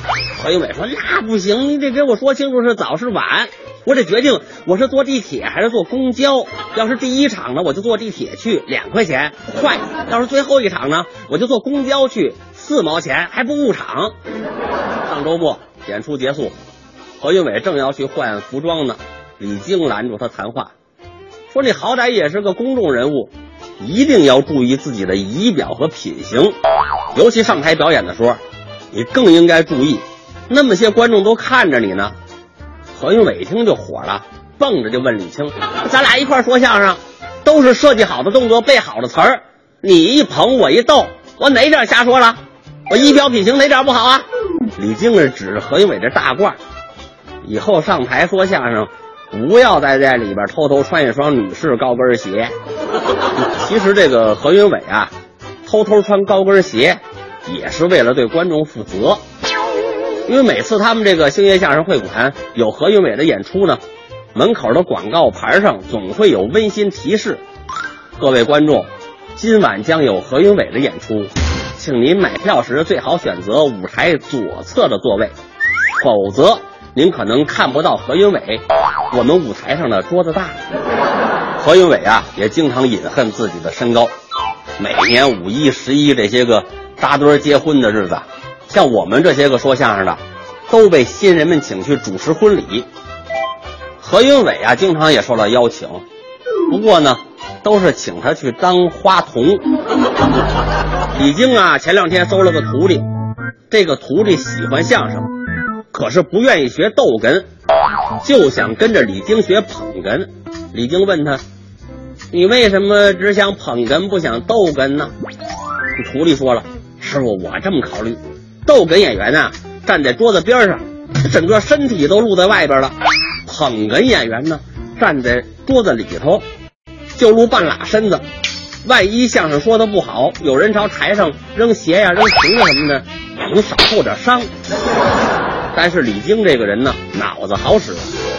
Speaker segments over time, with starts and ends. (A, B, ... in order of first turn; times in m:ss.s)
0:00.4-0:14.1 A
0:15.1-0:16.5 A
0:17.2-0:20.7 A
0:21.5-0:26.6 A
0:27.1-0:28.4 A
0:28.9-0:32.2 A
0:33.0-0:44.2 A
0:44.8-0:46.6 A
0:47.4-0:52.5 A
0:53.4-0:55.1 A
0:55.6-0:59.2 A
1:00.3-1:03.8 A
1:04.4-1:07.4 A
1:08.2-1:15.3 A
1:16.0-1:20.6 A
1:21.6-1:24.1 A
1:24.8-1:32.9 A
1:34.0-1:36.0 A
1:36.7-1:39.7 A
1:41.2-1:43.0 A
1:43.7-1:45.3 A
1:45.9-1:47.5 A
1:48.2-1:51.4 A
1:52.3-1:55.1 A
1:56.0-2:03.0 A
2:03.5-2:06.4 A
2:07.2-2:08.2 A
2:08.8-2:14.5 A
2:15.7-2:18.1 A